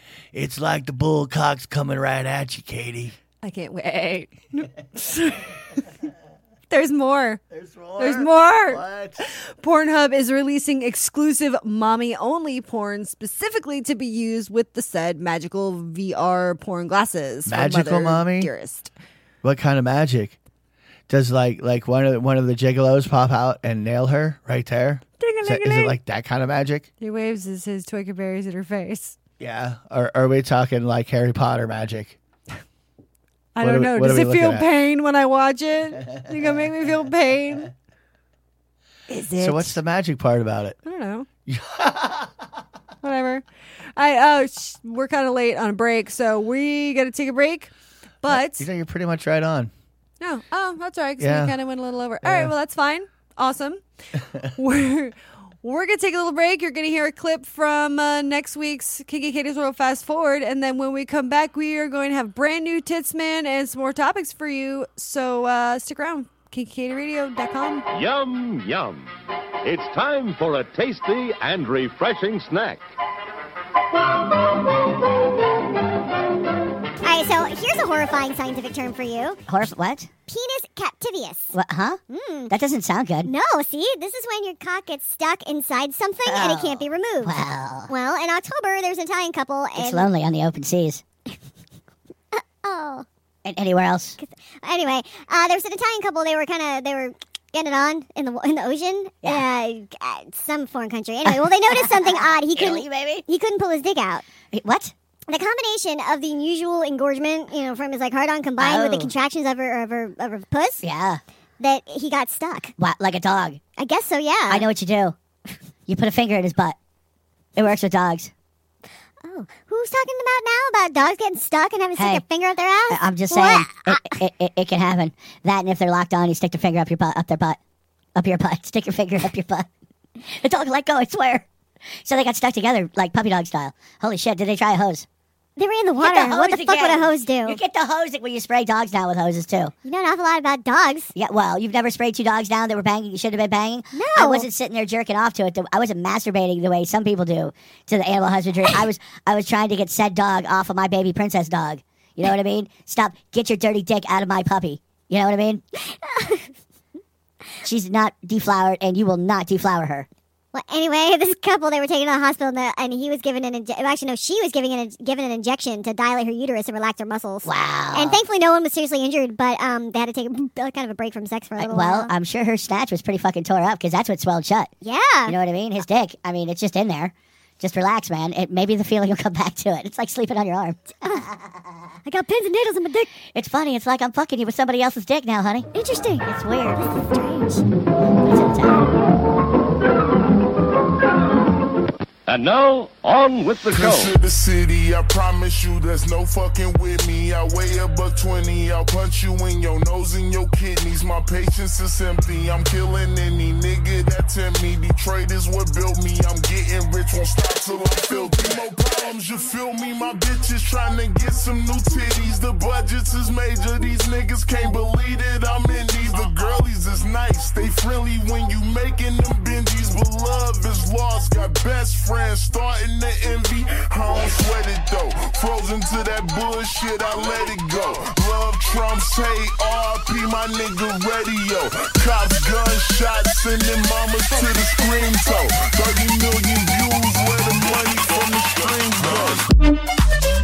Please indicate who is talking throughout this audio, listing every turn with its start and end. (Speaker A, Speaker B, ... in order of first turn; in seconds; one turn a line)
Speaker A: 0.3-3.1
Speaker B: 3.4-5.8
Speaker B: 6.7-7.4
Speaker A: 7.5-9.2
Speaker B: 8.0-18.9
Speaker A: 17.4-18.5
Speaker A: 19.4-20.4
Speaker A: 21.1-26.9
Speaker B: 25.2-26.0
Speaker B: 27.0-29.1
Speaker A: 29.4-32.2
Speaker B: 33.5-37.7
Speaker A: 33.6-34.7
Speaker A: 36.0-36.9
Speaker B: 39.1-39.8
Speaker A: 39.4-40.8
Speaker B: 40.8-41.3
Speaker A: 41.5-42.4
Speaker B: 43.0-43.4
Speaker B: 44.0-48.7
Speaker A: 48.2-49.7
Speaker B: 50.2-53.8
Speaker A: 51.2-51.5
Speaker A: 52.2-52.5
Speaker B: 54.5-67.8
Speaker C: 67.9-69.1
Speaker C: 69.6-72.8
Speaker D: 77.0-79.4
Speaker E: 79.5-80.1
Speaker D: 80.3-81.5
Speaker E: 81.5-82.0
Speaker D: 82.1-82.5
Speaker E: 82.5-83.3
Speaker D: 83.2-87.3
Speaker E: 86.2-87.9
Speaker D: 87.9-90.1
Speaker E: 89.8-91.0
Speaker D: 92.3-93.0
Speaker E: 93.4-94.2
Speaker D: 94.2-104.2
Speaker E: 101.2-103.2
Speaker E: 104.5-104.9
Speaker D: 105.3-110.8
Speaker E: 108.6-109.1
Speaker E: 110.8-111.2
Speaker D: 111.6-112.7
Speaker E: 112.8-113.6
Speaker D: 113.8-114.6
Speaker E: 114.5-115.1
Speaker E: 115.9-116.8
Speaker E: 117.5-118.3
Speaker D: 119.2-123.9
Speaker E: 121.9-122.2
Speaker E: 122.9-127.6
Speaker E: 128.2-129.7
Speaker E: 130.4-131.5
Speaker E: 132.0-135.1
Speaker D: 135.6-137.6
Speaker E: 136.0-139.7
Speaker D: 139.8-141.1
Speaker E: 141.1-155.6
Speaker D: 143.9-144.5
Speaker D: 156.0-156.4
Speaker E: 157.6-160.1
Speaker D: 160.5-172.1
Speaker E: 167.4-168.2
Speaker E: 171.6-174.7
Speaker D: 174.8-175.3
Speaker E: 175.2-181.6
Speaker D: 182.1-183.1
Speaker E: 183.3-185.7
Speaker D: 185.7-186.3
Speaker E: 186.2-186.9
Speaker D: 187.1-187.6
Speaker E: 188.2-188.9
Speaker C: 192.3-194.1
Speaker F: 193.7-239.5